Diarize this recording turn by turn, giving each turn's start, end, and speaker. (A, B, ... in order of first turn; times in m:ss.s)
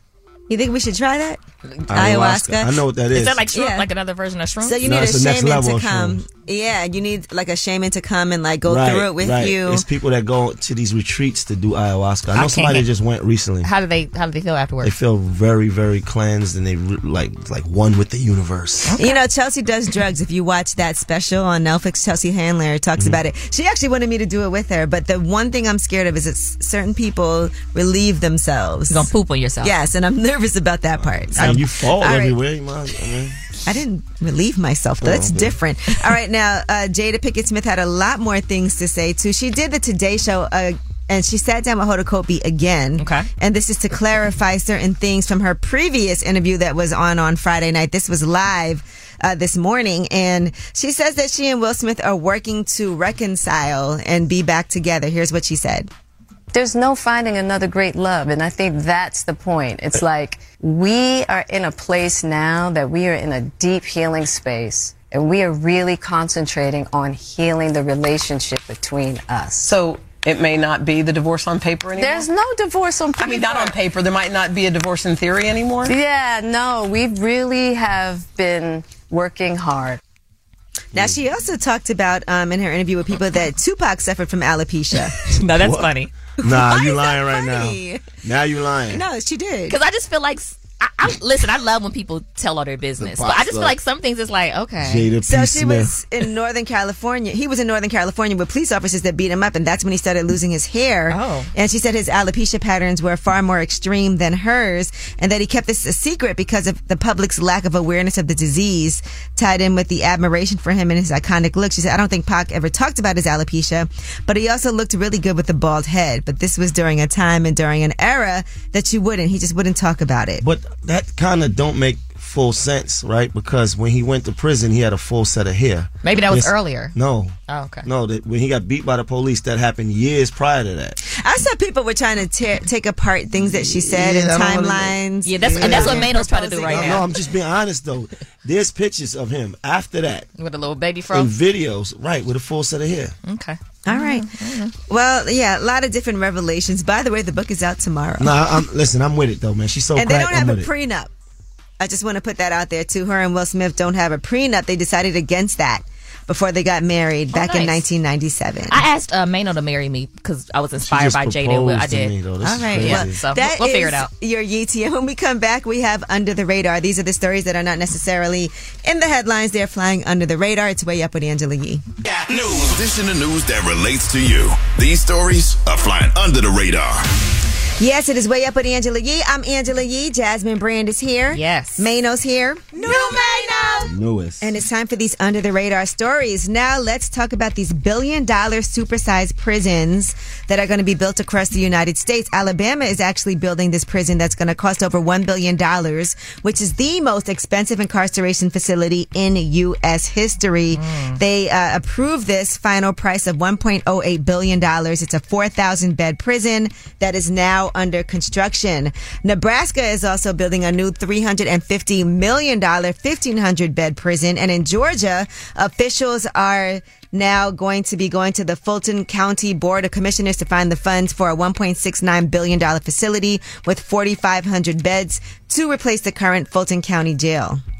0:00.5-0:01.4 A
0:01.9-0:03.4 B
0:01.9-0:02.7 A
0:03.1-0:04.8 C
0:03.5-0:03.9 A
0:04.6-0:09.8 A
0:04.8-0:06.2 B
0:08.7-0:13.7 B
0:12.4-0:12.9 C
0:13.6-0:14.9 C
0:14.8-0:18.9 B
0:18.8-0:19.2 C
0:19.0-0:29.1 A
0:28.9-0:29.7 C
0:29.6-0:32.4 A
0:31.0-0:33.4 B
0:33.6-0:55.9 A
0:35.0-0:35.5 B
0:43.0-0:43.3 C
0:56.5-1:09.8 D
1:09.6-1:12.3 E
1:11.9-1:13.8 D
1:13.2-1:16.0 E
1:15.8-1:20.0 D
1:20.9-1:25.2 A
1:25.3-1:26.1 C
1:25.5-1:29.0 B
1:26.4-1:28.0 A
1:28.9-1:29.8 A
1:29.7-1:35.1 C
1:33.0-1:33.8 B
1:34.8-1:35.9 B
1:35.3-2:00.4 A
1:41.1-1:41.5 C
2:00.4-2:11.0 B
2:06.0-2:06.9 C
2:07.5-2:07.9 C
2:11.1-2:17.1 A
2:13.4-2:20.3 B
2:15.2-2:17.1 C
2:20.4-2:21.3 C
2:21.1-2:23.2 B
2:23.2-2:24.7 C
2:23.9-2:24.3 A
2:24.9-2:28.4 A
2:28.2-2:30.7 B
2:30.0-2:31.1 A
2:31.8-2:38.8 A
2:37.3-2:37.8 C
2:38.7-2:42.2 C
2:40.8-2:43.2 B
2:42.4-2:51.8 A
2:42.8-2:44.1 C
2:52.4-2:57.1 F
2:57.8-3:03.9 A
3:01.3-3:01.9 C
3:02.9-3:03.2 C
3:03.8-3:04.5 B
3:04.4-3:47.6 A
3:20.7-3:21.2 C